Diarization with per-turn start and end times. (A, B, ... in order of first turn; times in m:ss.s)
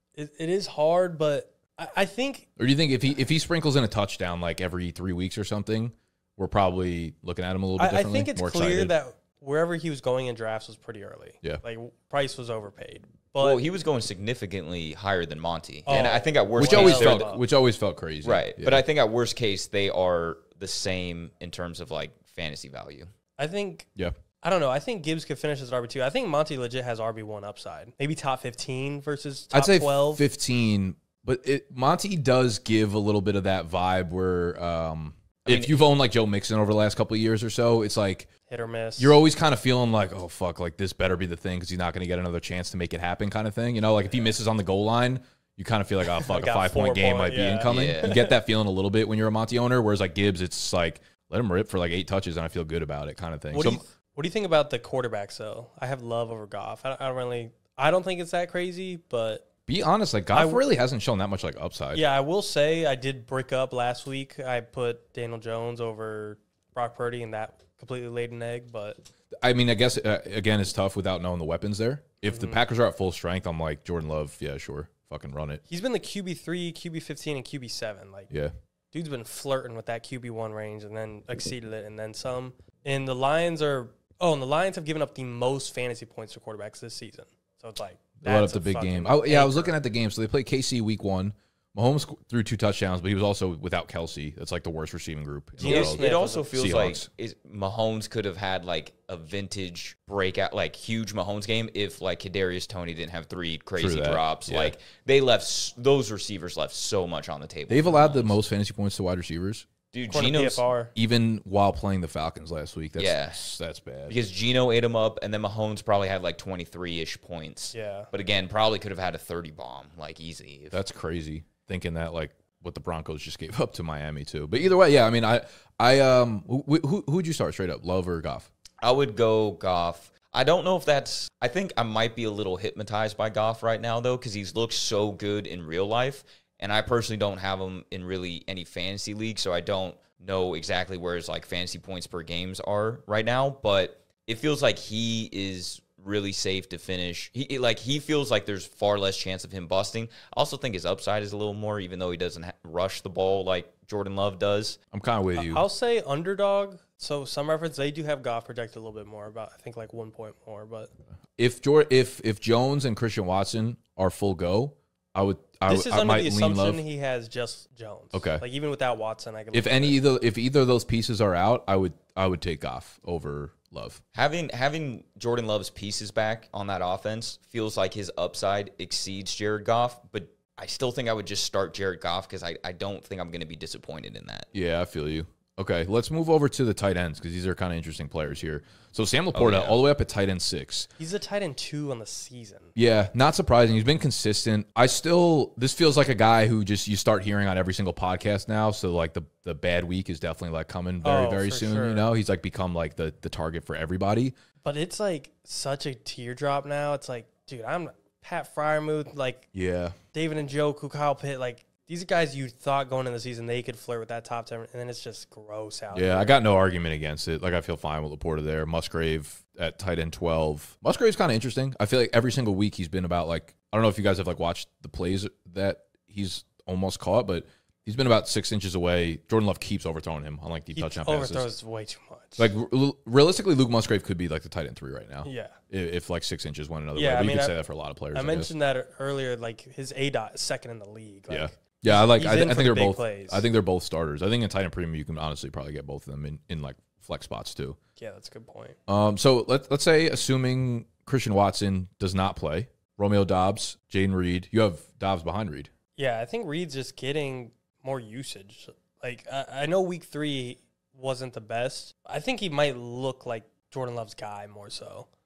0:00.1-0:02.5 A
0:02.6-0:08.9 B
0:07.8-0:13.6 A
0:13.4-0:17.3 C
0:15.8-0:17.4 A
0:16.5-0:18.8 B
0:18.2-0:23.1 C
0:23.4-0:23.9 A
0:24.4-0:30.2 A
0:29.5-0:38.3 B
0:35.5-0:35.8 C
0:38.5-0:39.2 A
0:39.0-0:53.8 B
0:46.1-0:48.3 A
0:47.6-0:48.2 C
0:53.5-0:59.4 A
0:59.7-1:02.0 B
1:00.3-1:00.6 A
1:01.9-1:09.0 A
1:09.4-1:15.6 B
1:12.2-1:12.6 A
1:15.7-1:18.3 A
1:18.9-1:29.7 A
1:28.2-1:36.0 B
1:35.6-1:36.5 A
1:35.6-1:48.4 C
1:36.5-1:37.1 B
1:43.8-1:44.7 B
1:47.7-1:49.7 B
1:49.9-1:50.6 C
1:50.1-1:50.9 A
1:50.9-1:54.2 B
1:53.0-1:53.4 C
1:54.1-2:00.8 C
1:57.7-1:58.1 A
2:00.7-2:08.5 B
2:08.8-2:34.8 C
2:34.9-2:35.6 B
2:35.3-2:40.9 A
2:41.4-2:46.8 B
2:45.7-2:50.0 A
2:48.1-2:48.4 B
2:49.5-2:54.0 B
2:54.1-3:04.5 C
3:04.5-3:10.9 B
3:09.3-3:09.8 C
3:11.0-3:12.7 A
3:12.8-3:24.3 B
3:21.0-3:22.1 A
3:24.6-3:29.5 A
3:29.5-3:30.0 B
3:30.1-3:36.4 A
3:35.9-3:51.5 B
3:50.7-3:52.5 A
3:52.4-3:58.5 B
3:55.2-3:55.6 A
3:56.9-3:57.6 A
3:58.1-4:03.4 A
4:01.3-4:07.8 B
4:08.0-4:08.8 A
4:08.9-4:15.7 B
4:16.0-4:25.1 A